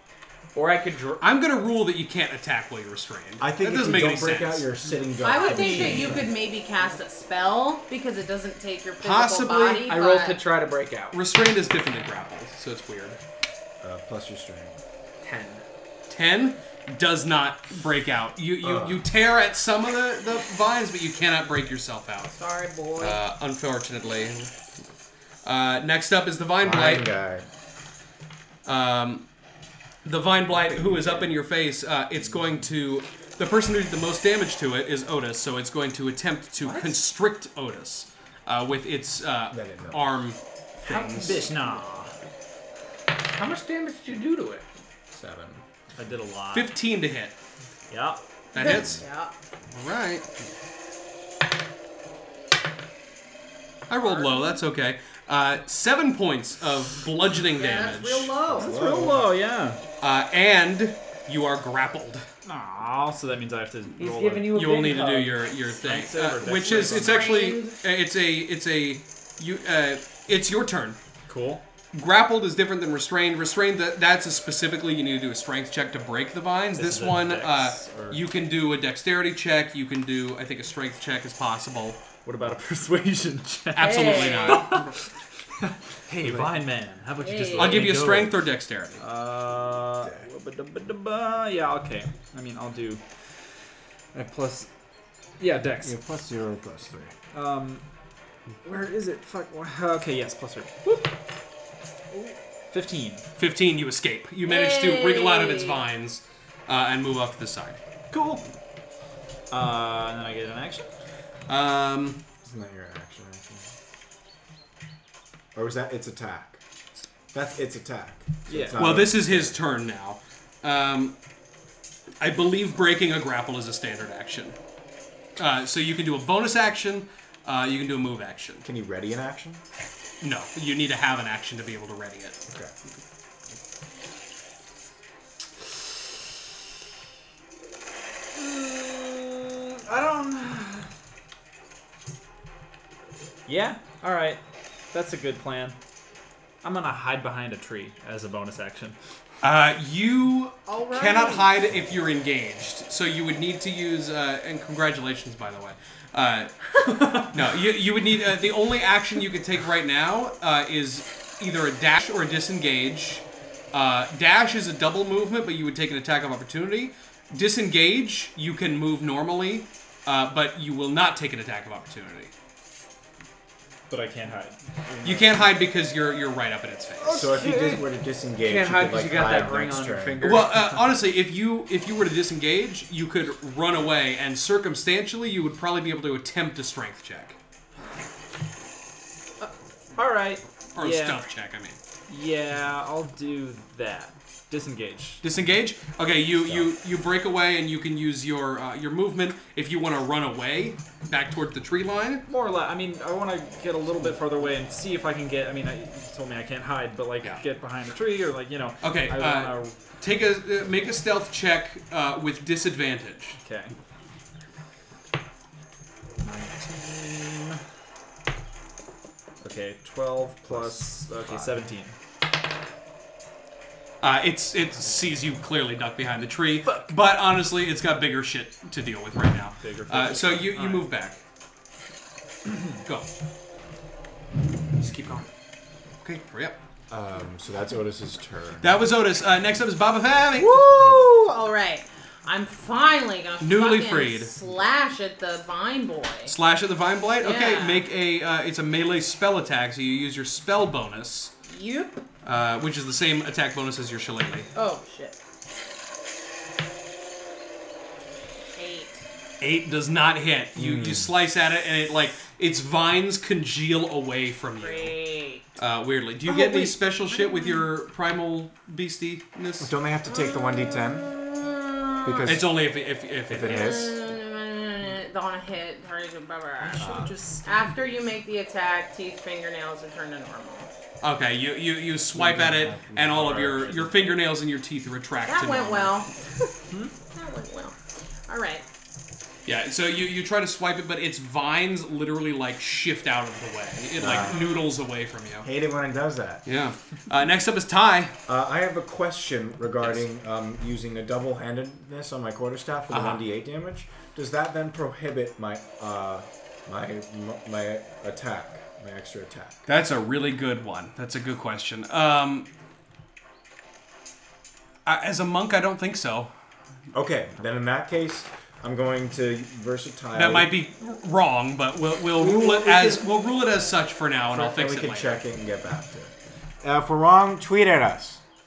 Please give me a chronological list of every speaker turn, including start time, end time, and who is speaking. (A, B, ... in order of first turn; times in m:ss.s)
0:00.5-0:01.2 A
0:01.2-0:04.7 B
0:03.4-0:06.3 C
0:05.2-0:10.4 D
0:05.4-0:06.2 A
0:09.0-0:09.9 B
0:09.8-0:11.2 A
0:11.1-0:13.2 B
0:13.8-0:14.8 C
0:15.2-0:15.6 A
0:16.1-0:22.4 B
0:18.6-0:19.0 C
0:22.3-0:23.2 D
0:23.0-0:24.5 B
0:25.4-0:27.1 B
0:26.6-0:27.4 C
0:28.6-0:29.2 B
0:30.0-0:41.5 B
0:30.6-0:31.3 C
0:36.6-0:37.0 A
0:39.5-0:40.0 C
0:40.8-0:42.1 E
0:43.3-0:44.6 A
0:45.1-0:45.6 C
0:46.0-0:46.7 E
0:46.5-0:47.4 B
0:47.9-0:48.2 E
0:48.5-0:49.0 B
0:48.6-0:49.3 D
0:48.7-0:49.0 C
0:49.7-0:50.3 B
0:53.9-0:58.3 B
0:54.0-0:54.6 D
0:57.5-0:58.7 D
0:58.5-0:59.3 C
0:58.6-0:59.8 E
1:00.0-1:02.2 B
1:02.4-1:04.6 E
1:04.0-1:05.5 A
1:04.5-1:11.0 B
1:05.7-1:07.4 E
1:06.6-1:07.8 D
1:11.3-1:11.6 E
1:11.9-1:22.0 B
1:16.8-1:18.2 E
1:22.2-1:24.9 E
1:23.8-1:24.8 B
1:23.8-1:24.8 D
1:25.6-1:28.4 E
1:26.2-1:26.6 C
1:27.2-1:28.0 D
1:27.6-1:29.0 B
1:29.0-1:33.0 E
1:30.0-1:30.3 C
1:34.1-1:34.7 E
1:35.4-1:36.0 E
1:35.8-1:37.1 C
1:37.3-1:37.8 E
1:38.6-1:41.1 E
1:42.7-1:43.3 E
1:43.4-1:47.8 B
1:44.4-1:45.8 D
1:48.1-1:48.4 E
1:49.5-1:50.9 E
1:51.5-1:52.2 B
1:52.4-1:53.7 C
1:55.6-1:56.6 C
1:57.3-1:59.6 C
1:58.5-1:58.8 E
1:58.8-2:01.2 B
2:02.2-2:04.6 B
2:05.4-2:08.7 B
2:08.6-2:09.6 C
2:10.2-2:12.4 B
2:18.4-2:20.9 E
2:23.5-2:24.4 E
2:24.9-2:25.8 E
2:26.6-2:29.0 E
2:29.4-2:36.6 B
2:30.7-2:31.5 D
2:36.8-2:37.3 E
2:37.2-2:52.3 B
2:53.9-2:55.6 E
2:55.0-2:57.3 B
2:57.0-2:57.8 E
2:57.2-3:00.4 C
2:58.4-3:00.8 A
3:00.2-3:07.4 B
3:10.0-3:11.2 E
3:10.8-3:11.8 B
3:12.1-3:15.2 E
3:15.2-3:22.3 B
3:16.4-3:16.7 C
3:22.3-3:29.8 E
3:28.8-3:33.4 B
3:33.4-3:33.7 E
3:36.2-3:37.6 E
3:39.4-3:42.0 E
3:40.4-3:41.5 C
3:44.0-3:51.2 B
3:46.7-3:46.9 E
3:49.6-3:50.9 E
3:52.5-3:52.8 E
3:54.8-3:55.3 A
3:56.0-3:56.6 B
3:56.9-3:58.8 C
3:58.6-4:00.6 B
4:00.4-4:06.4 D
4:03.4-4:04.3 B
4:06.3-4:11.3 B
4:07.2-4:07.9 D
4:11.5-4:12.0 D
4:12.2-4:14.5 B
4:14.6-4:15.2 D
4:18.6-4:19.1 D
4:19.4-4:25.0 B
4:20.6-4:21.1 C
4:24.6-4:25.5 D
4:25.6-4:29.7 B
4:26.3-4:26.7 C
4:26.5-4:27.7 D
4:29.6-4:31.1 C
4:30.1-4:32.3 D
4:32.0-4:32.5 C
4:32.2-4:33.9 B
4:33.3-4:34.0 C
4:33.4-4:40.7 D
4:36.8-4:37.2 C
4:36.8-4:37.1 E
4:41.0-4:46.0 B
4:42.1-4:44.1 C
4:45.2-4:46.5 D
4:47.1-4:48.6 D
4:49.5-4:55.5 B
4:54.0-4:54.4 C
4:54.2-4:54.7 D
4:55.4-4:56.4 C
4:56.4-4:58.2 B
4:58.3-5:09.6 C
5:02.9-5:03.3 B
5:09.7-5:12.5 B
5:14.8-5:16.3 B
5:16.9-5:20.5 C
5:20.1-5:25.2 B
5:22.2-5:23.0 C
5:24.3-5:28.2 C